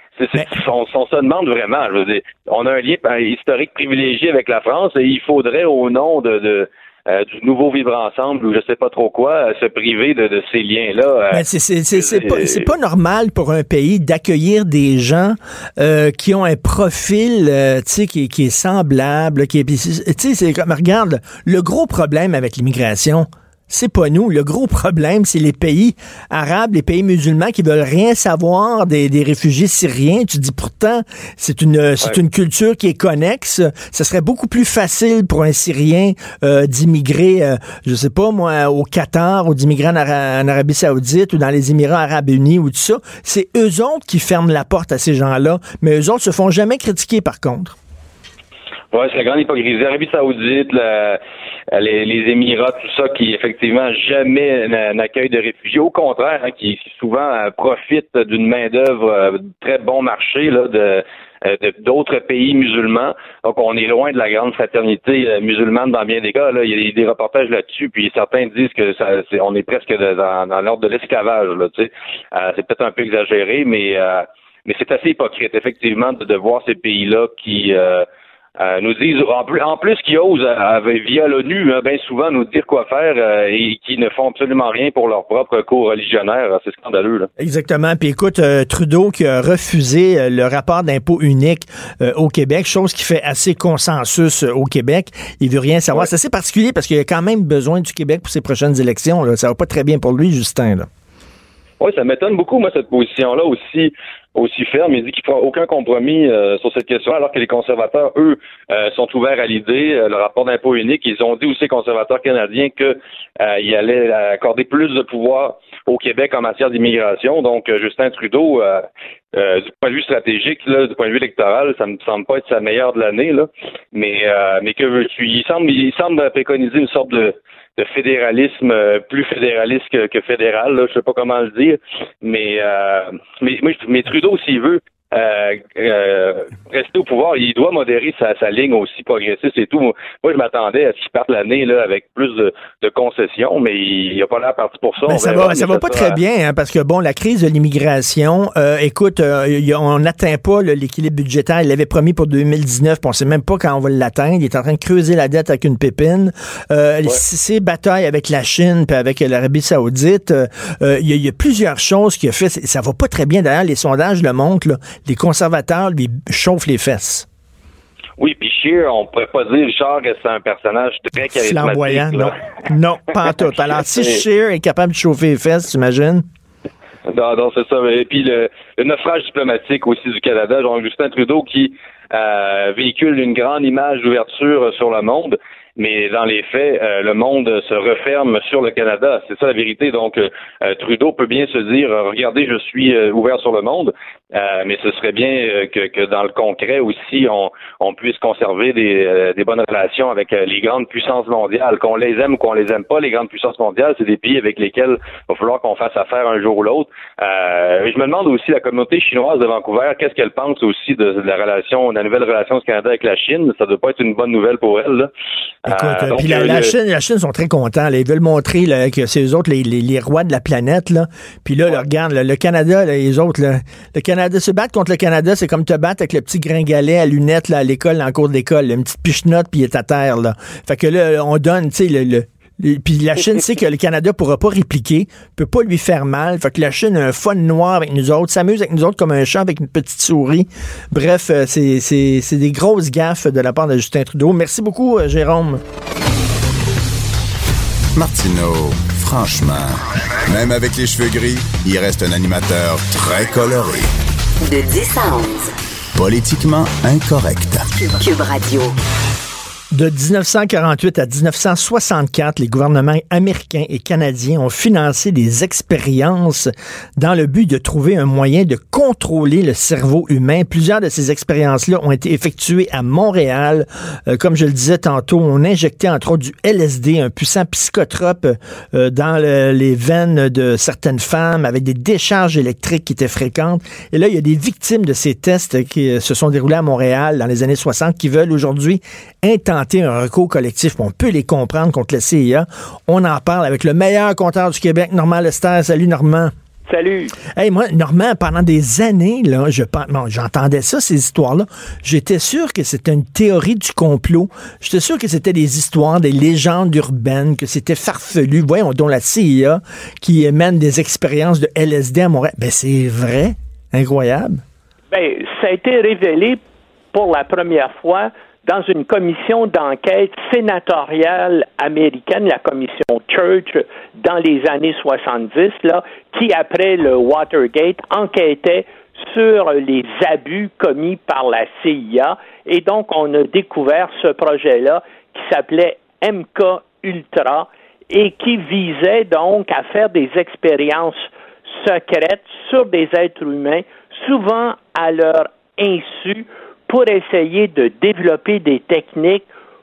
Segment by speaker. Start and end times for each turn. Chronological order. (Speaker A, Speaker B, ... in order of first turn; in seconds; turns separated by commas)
Speaker A: 0.2-11.4, Speaker B: 11.3-47.8, Speaker A: 12.0-12.7, Speaker A: 48.9-51.2, Speaker A: 51.7-78.0, Speaker A: 78.6-87.3, Speaker B: 87.4-100.9, Speaker A: 101.8-146.2, Speaker B: 145.0-167.2, Speaker A: 168.2-172.4, Speaker B: 171.3-176.2, Speaker A: 173.4-174.2, Speaker A: 177.1-215.1, Speaker B: 215.6-245.6, Speaker A: 215.7-216.7, Speaker C: 247.9-253.9, Speaker D: 254.4-255.5, Speaker C: 255.9-257.6, Speaker D: 257.7-258.7, Speaker B: 259.7-296.3, Speaker E: 296.7-297.1, Speaker B: 297.3-314.4, Speaker E: 314.9-316.4, Speaker E: 316.9-349.3